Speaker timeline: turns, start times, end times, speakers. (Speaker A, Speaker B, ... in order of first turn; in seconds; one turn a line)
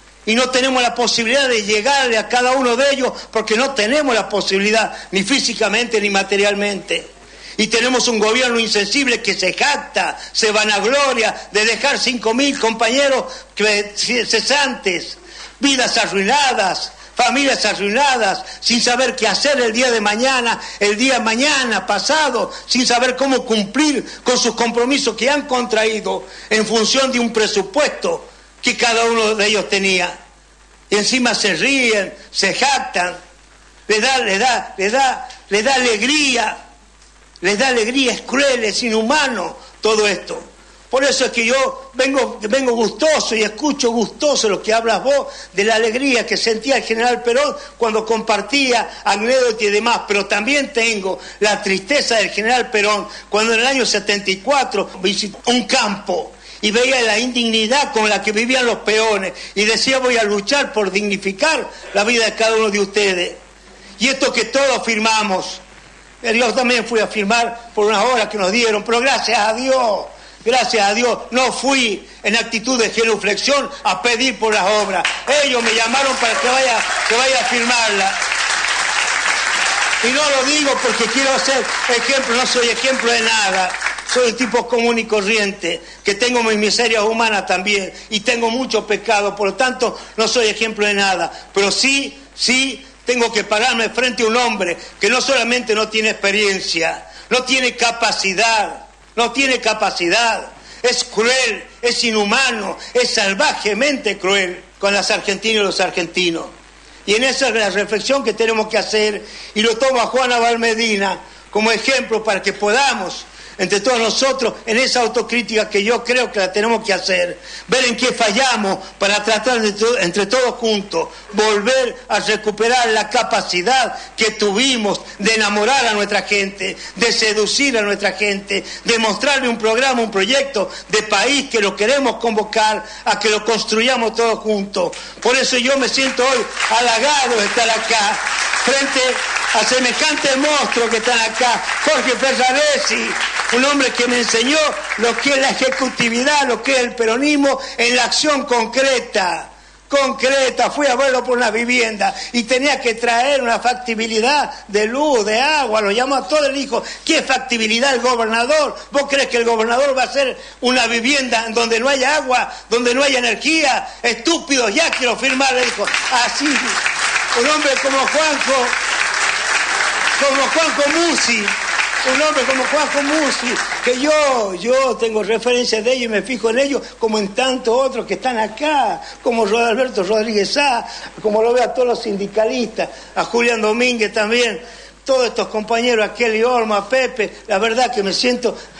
Speaker A: 0.2-30.2
Speaker A: 30.9-33.2
Speaker A: 33.9-36.6
Speaker A: 37.4-63.4
Speaker A: 64.0-65.6
Speaker A: 66.2-78.2
Speaker A: 80.0-106.5
Speaker A: 107.0-166.8
Speaker A: 167.3-168.8
Speaker A: 170.2-171.5
Speaker A: 172.0-188.6